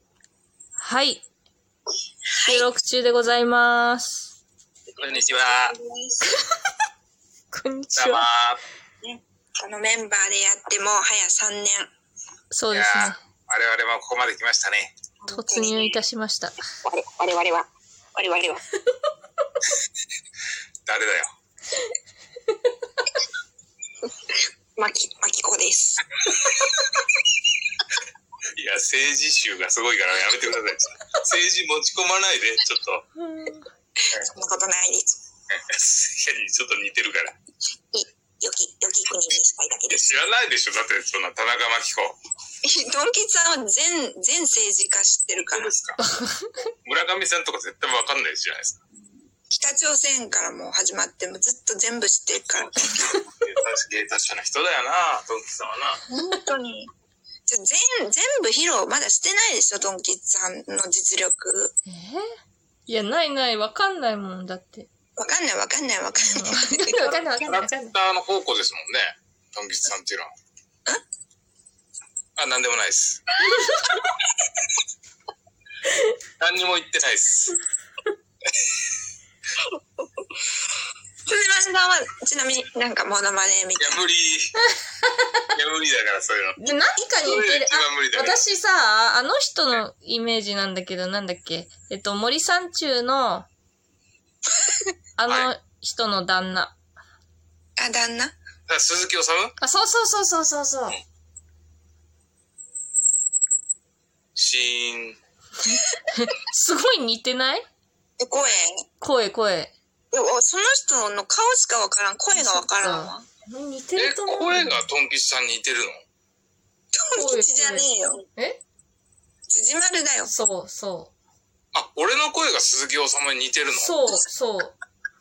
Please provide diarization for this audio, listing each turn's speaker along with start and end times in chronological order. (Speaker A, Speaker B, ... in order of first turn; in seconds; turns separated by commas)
Speaker A: 0.8-1.2, Speaker B: 2.4-2.7, Speaker A: 2.5-4.3, Speaker C: 5.0-5.8, Speaker B: 5.0-6.3, Speaker A: 7.5-8.2, Speaker C: 8.0-8.6, Speaker B: 9.0-11.9, Speaker A: 12.5-13.2, Speaker C: 12.7-14.9, Speaker B: 15.2-16.0, Speaker A: 15.3-16.6, Speaker B: 16.8-18.6, Speaker C: 20.9-21.3, Speaker B: 24.2-26.1, Speaker C: 28.6-33.0, Speaker A: 33.2-33.7, Speaker B: 34.2-35.1, Speaker C: 35.5-37.3, Speaker B: 37.9-40.0, Speaker C: 39.9-42.2, Speaker B: 42.6-45.7, Speaker C: 45.4-46.0, Speaker A: 46.0-46.7, Speaker C: 46.8-48.8, Speaker B: 49.0-53.1, Speaker C: 53.2-56.0, Speaker B: 56.1-56.9, Speaker B: 57.5-61.7, Speaker A: 61.9-62.3, Speaker A: 62.9-64.9, Speaker B: 65.2-67.4, Speaker A: 66.2-68.0, Speaker C: 67.4-70.3, Speaker C: 72.4-73.2, Speaker A: 73.5-74.0, Speaker C: 76.4-77.6, Speaker B: 81.3-84.0, Speaker C: 83.8-84.6, Speaker A: 85.0-85.3, Speaker C: 85.5-86.6, Speaker A: 86.6-93.5, Speaker C: 87.2-88.4, Speaker A: 95.2-96.8, Speaker B: 97.8-98.3, Speaker C: 98.7-99.6, Speaker A: 99.6-101.0, Speaker C: 104.4-105.2, Speaker A: 105.6-107.7, Speaker B: 108.2-108.8, Speaker A: 109.0-109.7, Speaker B: 110.1-113.3, Speaker A: 112.3-114.8, Speaker C: 114.0-116.0, Speaker B: 116.9-118.2, Speaker A: 117.2-118.6, Speaker B: 119.5-120.3, Speaker A: 120.2-121.1, Speaker C: 121.7-123.9, Speaker A: 123.8-124.8